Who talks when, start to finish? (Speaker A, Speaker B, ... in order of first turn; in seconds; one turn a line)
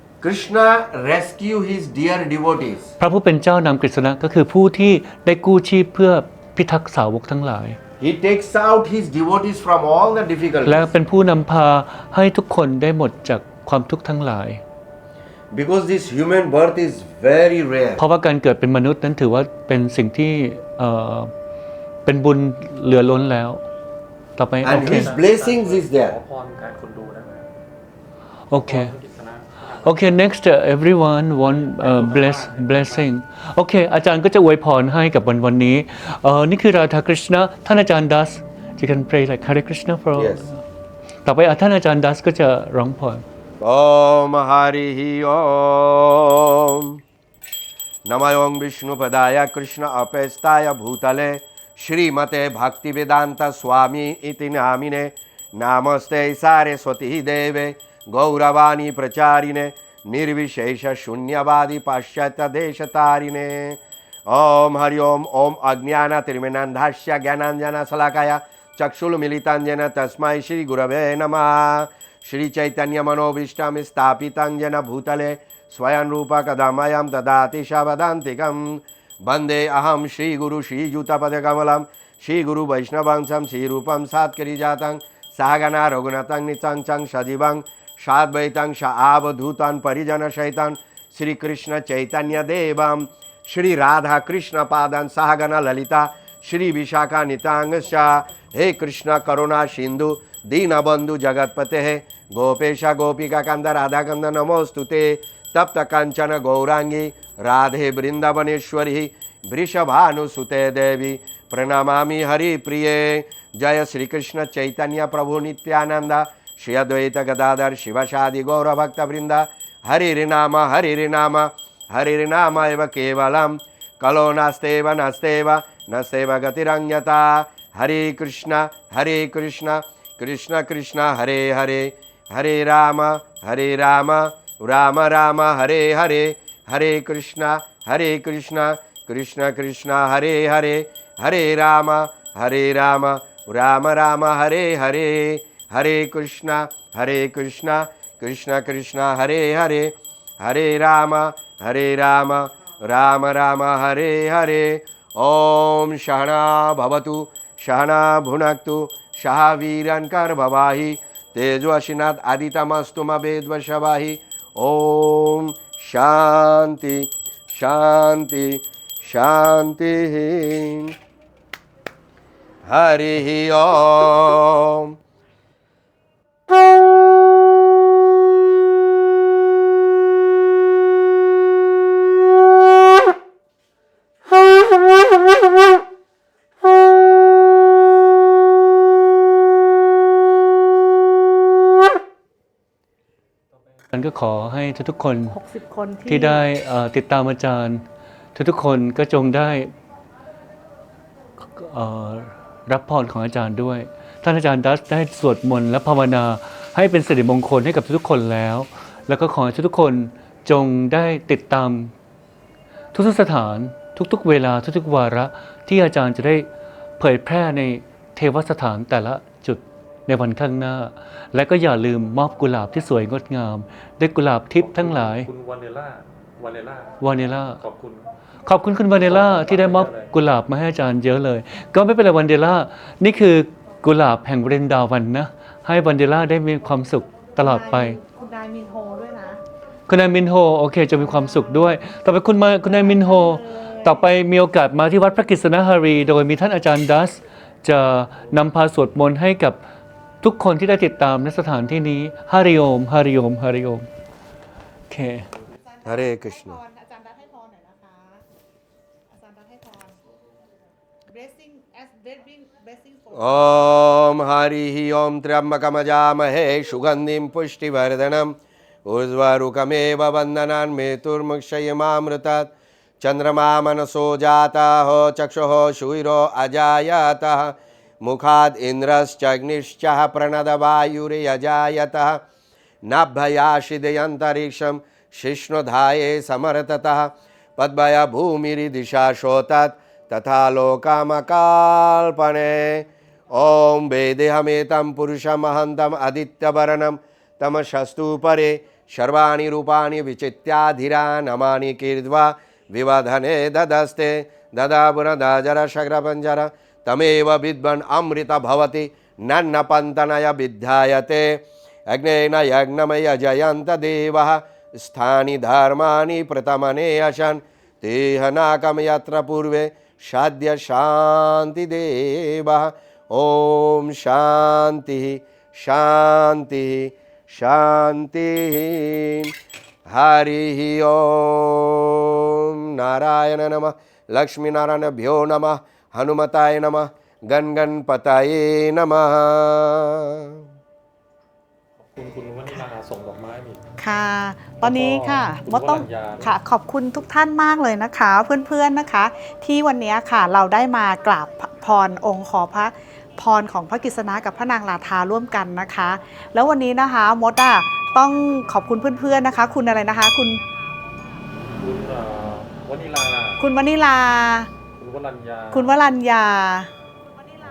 Speaker A: 0.2-2.9
Speaker B: 3.0-7.8
Speaker A: 8.0-10.9
Speaker B: 10.6-14.6
Speaker A: 15.5-18.0
Speaker B: 18.0-21.3
Speaker B: 22.1-23.6
Speaker B: 24.4-25.1
Speaker A: 24.6-26.2
Speaker C: 24.8-27.5
Speaker B: 28.5-28.9
Speaker C: 28.6-30.3
Speaker B: 29.8-40.6
Speaker C: 31.4-33.1
Speaker A: 40.1-40.4
Speaker B: 41.2-43.2
Speaker A: 43.6-46.9
Speaker A: 48.1-170.9
Speaker A: 172.7-174.9
Speaker B: 193.9-195.4
Speaker D: 195.3-196.4
Speaker B: 196.0-197.8
Speaker B: 198.3-199.7
Speaker B: 201.4-211.9
Speaker B: 212.9-216.5
Speaker B: 217.0-225.3
Speaker C: 224.6-228.1
Speaker B: 227.0-227.6
Speaker B: 228.4-238.0
Speaker C: 228.9-230.1
Speaker D: 237.4-239.4
Speaker B: 239.9-249.6
Speaker D: 242.7-244.0
Speaker B: 250.2-253.9
Speaker B: 254.9-255.3
Speaker A: 255.8-256.6
Speaker D: 255.9-258.2
Speaker D: 259.1-259.9
Speaker D: 261.1-263.3
Speaker A: 263.1-282.2
Speaker A: 282.9-329.3
Speaker A: 329.9-340.4
Speaker C: 341.8-343.6
Speaker D: 343.8-360.4
Speaker C: 344.6-346.3
Speaker C: 361.6-363.4
Speaker D: 363.4-364.5
Speaker C: 364.8-365.8
Speaker D: 365.5-366.7